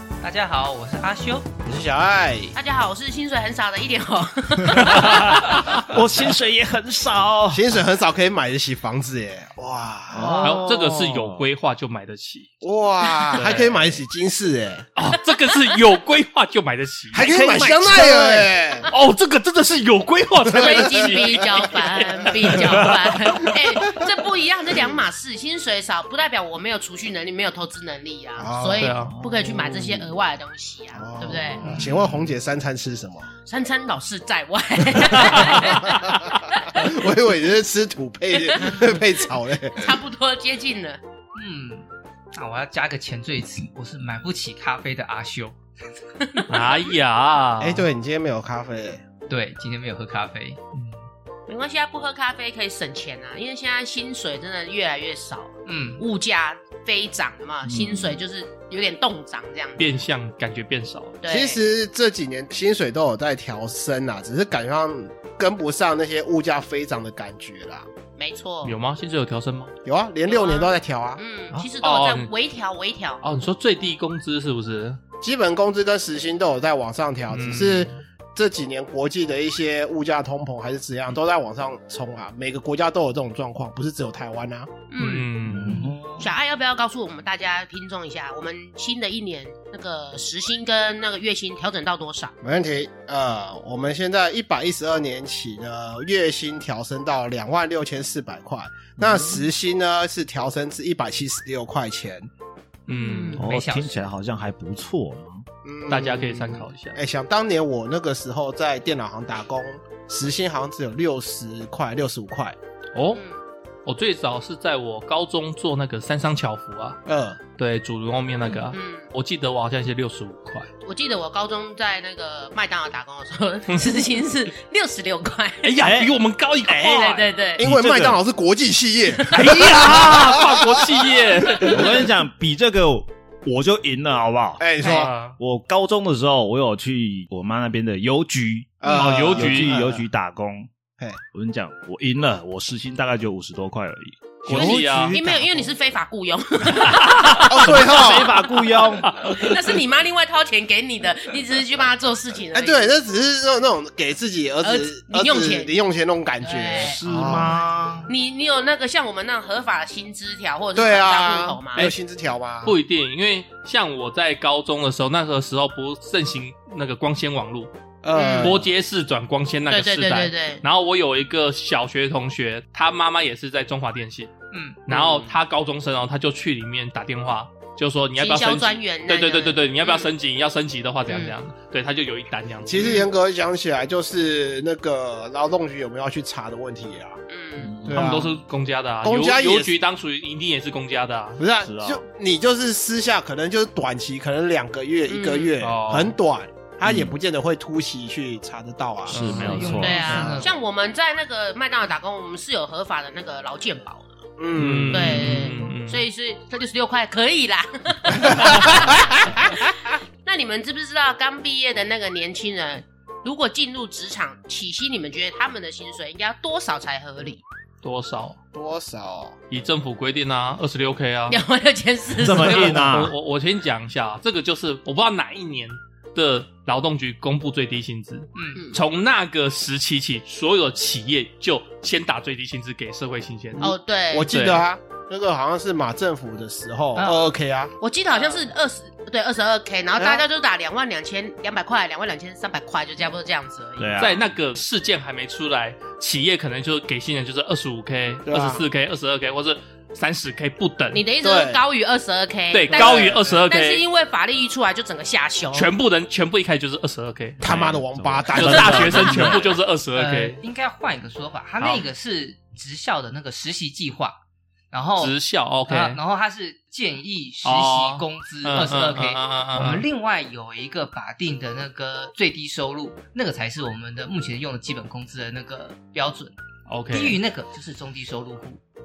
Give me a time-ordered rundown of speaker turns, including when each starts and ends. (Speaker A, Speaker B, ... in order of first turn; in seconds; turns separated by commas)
Speaker A: 0.2-1.5, Speaker B: 1.7-2.5, Speaker C: 2.5-5.6, Speaker D: 4.7-7.6, Speaker E: 4.8-5.8, Speaker B: 7.5-10.5, Speaker D: 10.1-11.4, Speaker E: 10.4-12.5, Speaker B: 12.6-14.9, Speaker E: 13.3-13.9, Speaker E: 14.9-17.3, Speaker B: 17.1-18.9, Speaker D: 17.2-18.4, Speaker C: 17.9-18.9, Speaker E: 18.9-23.5, Speaker C: 20.5-31.7, Speaker B: 20.6-21.4, Speaker B: 22.5-22.8, Speaker B: 23.4-24.0, Speaker B: 28.4-28.9, Speaker E: 28.8-29.1, Speaker D: 29.1-29.7, Speaker B: 29.7-30.1, Speaker B: 30.9-33.3, Speaker D: 31.6-32.3, Speaker C: 33.4-36.9, Speaker B: 35.2-36.1, Speaker E: 35.3-36.3, Speaker B: 36.7-39.9, Speaker C: 38.4-38.9, Speaker C: 39.7-41.0, Speaker A: 41.4-45.6, Speaker C: 46.2-46.5, Speaker E: 46.5-47.9, Speaker B: 47.6-49.0, Speaker A: 49.3-50.6, Speaker C: 51.5-59.9, Speaker A: 55.6-56.0, Speaker D: 57.6-58.2, Speaker E: 59.8-61.2, Speaker C: 61.2-61.6, Speaker B: 61.3-67.9, Speaker C: 68.2-68.8, Speaker E: 68.6-69.7, Speaker B: 69.8-71.2, Speaker C: 70.2-73.2, Speaker E: 71.5-72.3, Speaker E: 73.2-75.0, Speaker B: 75.2-84.7, Speaker E: 77.3-77.9, Speaker C: 84.9-92.3, Speaker E: 85.0-85.9, Speaker D: 85.4-86.3, Speaker B: 92.4-102.3, Speaker D: 99.0-99.5, Speaker E: 102.9-103.4, Speaker C: 102.9-103.4, Speaker A: 103.3-104.1, Speaker D: 103.3-105.5, Speaker B: 105.6-112.6, Speaker E: 105.9-107.0, Speaker E: 112.9-113.2, Speaker C: 113.1-113.4, Speaker E: 113.8-117.0, Speaker B: 117.1-117.4, Speaker E: 117.6-120.7, Speaker C: 118.7-119.1, Speaker C: 120.8-125.8, Speaker E: 123.7-124.0, Speaker E: 125.6-127.2, Speaker D: 125.8-128.2, Speaker C: 126.8-127.6, Speaker B: 127.6-131.1, Speaker C: 129.2-129.5, Speaker E: 129.3-132.1, Speaker D: 129.6-130.6, Speaker D: 131.5-140.7, Speaker B: 134.6-135.1, Speaker E: 134.8-135.4, Speaker B: 138.8-140.0, Speaker E: 138.8-139.8, Speaker D: 141.3-145.7, Speaker E: 144.5-145.2, Speaker B: 144.5-145.0, Speaker C: 144.6-147.4, Speaker E: 146.8-147.9, Speaker B: 147.5-148.3, Speaker D: 147.6-149.3, Speaker E: 149.0-149.5, Speaker C: 149.2-152.9, Speaker B: 152.5-157.6, Speaker C: 154.6-155.7, Speaker C: 156.4-157.4, Speaker D: 156.7-158.1, Speaker C: 158.1-161.9, Speaker B: 160.8-162.8, Speaker E: 162.6-167.7, Speaker B: 168.0-168.7, Speaker C: 168.1-168.6, Speaker E: 168.4-174.3, Speaker C: 169.7-170.6, Speaker A: 174.5-174.9, Speaker E: 174.9-183.0, Speaker C: 174.9-175.3, Speaker C: 178.2-180.1, Speaker C: 181.1-181.4, Speaker B: 182.7-187.2, Speaker C: 182.8-183.1, Speaker C: 187.3-187.8, Speaker D: 187.6-188.3, Speaker B: 187.8-188.4, Speaker E: 187.9-191.4, Speaker B: 189.0-189.7, Speaker B: 191.4-199.2, Speaker D: 191.6-192.0, Speaker C: 195.1-195.5, Speaker E: 195.6-196.2, Speaker D: 196.8-197.2, Speaker E: 199.1-200.4, Speaker D: 199.1-200.2, Speaker A: 199.2-200.6, Speaker C: 199.8-204.2, Speaker B: 204.4-205.3, Speaker E: 204.6-206.1, Speaker C: 204.9-217.4, Speaker B: 208.2-209.7, Speaker E: 217.8-218.4, Speaker B: 218.5-219.4, Speaker E: 219.5-221.4, Speaker C: 221.3-222.9, Speaker D: 222.2-223.1, Speaker E: 222.3-233.7, Speaker A: 228.4-228.6, Speaker C: 228.6-228.8, Speaker C: 233.6-234.3, Speaker B: 233.6-237.8, Speaker E: 234.3-234.6, Speaker A: 236.9-237.2, Speaker C: 237.8-244.0, Speaker B: 240.0-240.2, Speaker D: 243.8-244.2, Speaker E: 244.0-251.0, Speaker B: 248.2-248.6, Speaker C: 250.9-255.7, Speaker B: 251.2-251.6, Speaker E: 252.5-253.8, Speaker B: 252.7-253.3, Speaker E: 255.5-257.4, Speaker D: 257.4-259.3, Speaker B: 257.4-259.5, Speaker E: 258.3-260.4, Speaker A: 259.9-264.2, Speaker E: 261.6-261.9, Speaker A: 264.7-265.1, Speaker E: 265.0-266.0, Speaker A: 265.7-276.4, Speaker E: 267.4-269.9, Speaker E: 276.7-277.2, Speaker A: 276.9-278.6